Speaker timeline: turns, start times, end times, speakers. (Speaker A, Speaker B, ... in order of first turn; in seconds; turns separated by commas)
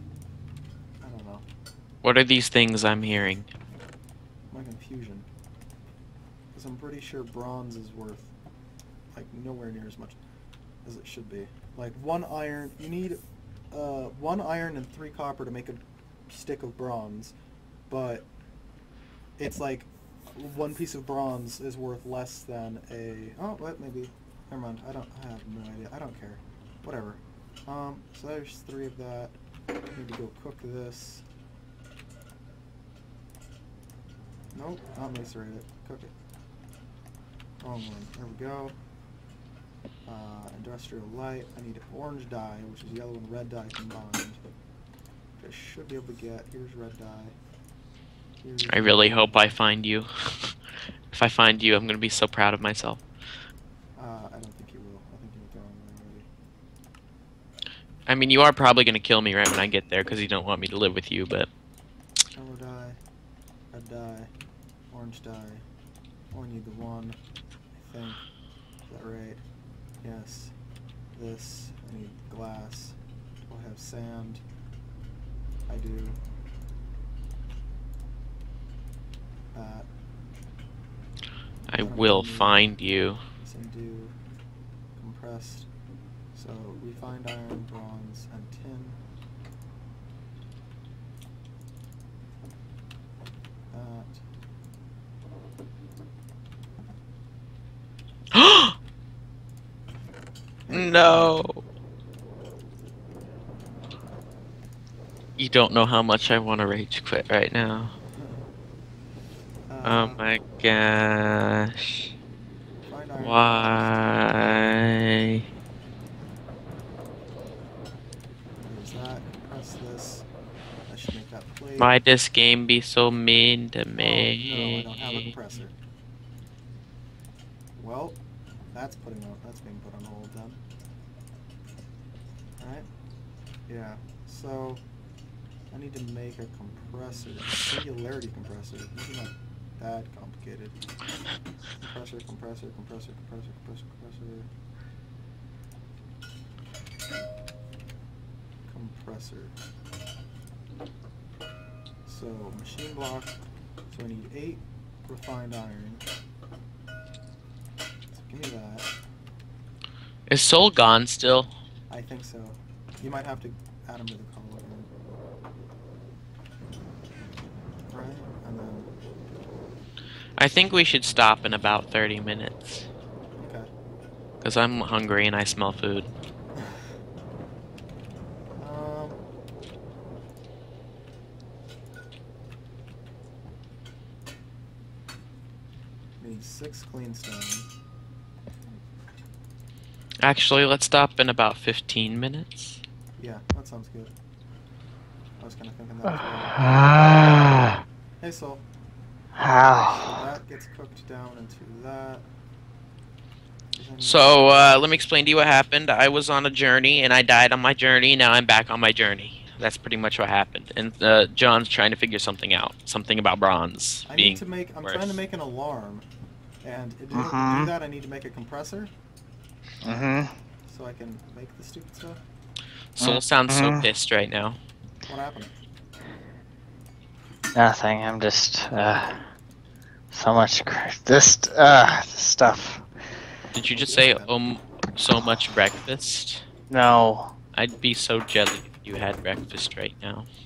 Speaker A: 1.0-1.4, Speaker B: 2.0-3.5, Speaker A: 4.5-5.3, Speaker A: 6.5-8.3, Speaker A: 9.1-10.2, Speaker A: 10.8-13.2, Speaker A: 13.7-17.3, Speaker A: 17.9-18.3, Speaker A: 19.4-29.3, Speaker A: 29.9-31.2, Speaker A: 34.5-36.1, Speaker A: 37.6-38.8, Speaker A: 40.0-44.4, Speaker A: 45.4-47.3, Speaker A: 48.4-49.5, Speaker B: 48.7-50.5, Speaker B: 51.1-53.0, Speaker A: 54.0-56.3, Speaker B: 58.1-61.5, Speaker A: 62.3-63.0, Speaker A: 63.7-64.3, Speaker A: 64.9-65.6, Speaker A: 66.3-67.2, Speaker A: 67.8-68.2, Speaker A: 68.9-69.4, Speaker A: 70.0-70.5, Speaker A: 71.1-74.4, Speaker A: 75.7-76.2, Speaker A: 79.5-79.9, Speaker A: 81.7-82.7, Speaker B: 81.7-83.2, Speaker A: 83.4-84.1, Speaker A: 85.0-85.7, Speaker A: 86.3-89.0, Speaker A: 93.7-94.2, Speaker B: 98.3-98.8, Speaker A: 100.7-101.4, Speaker B: 100.7-101.6, Speaker B: 105.4-107.9, Speaker A: 108.2-108.4, Speaker A: 109.7-110.2, Speaker B: 109.8-112.1, Speaker A: 112.8-115.0, Speaker B: 113.2-115.4, Speaker A: 118.6-120.3, Speaker A: 120.9-121.9, Speaker B: 121.8-125.3, Speaker A: 124.0-125.7, Speaker A: 127.8-128.2, Speaker A: 128.7-130.6, Speaker A: 132.6-132.9, Speaker A: 133.7-134.8, Speaker A: 135.7-140.8, Speaker A: 141.8-144.5, Speaker A: 148.7-149.6, Speaker A: 152.1-156.0, Speaker A: 158.1-158.9, Speaker B: 160.3-161.5, Speaker A: 161.9-164.9, Speaker A: 167.9-168.9, Speaker B: 170.4-172.9, Speaker A: 173.4-173.7, Speaker B: 174.4-176.1, Speaker A: 178.6-179.2, Speaker A: 186.2-187.7, Speaker B: 190.2-192.8, Speaker A: 193.2-194.1, Speaker A: 195.4-196.7, Speaker C: 196.0-197.8, Speaker A: 198.2-198.6, Speaker C: 199.4-200.2, Speaker A: 199.8-202.3, Speaker A: 203.8-205.1, Speaker B: 204.0-215.1, Speaker A: 214.1-216.0, Speaker A: 216.6-218.9, Speaker C: 217.1-217.7, Speaker C: 219.8-220.3, Speaker A: 220.7-222.2, Speaker B: 223.0-224.6, Speaker C: 223.0-223.9, Speaker A: 225.1-225.5, Speaker C: 227.5-229.2, Speaker C: 230.1-232.8, Speaker B: 233.5-236.4, Speaker A: 233.7-234.3, Speaker C: 236.7-237.3, Speaker B: 237.5-240.3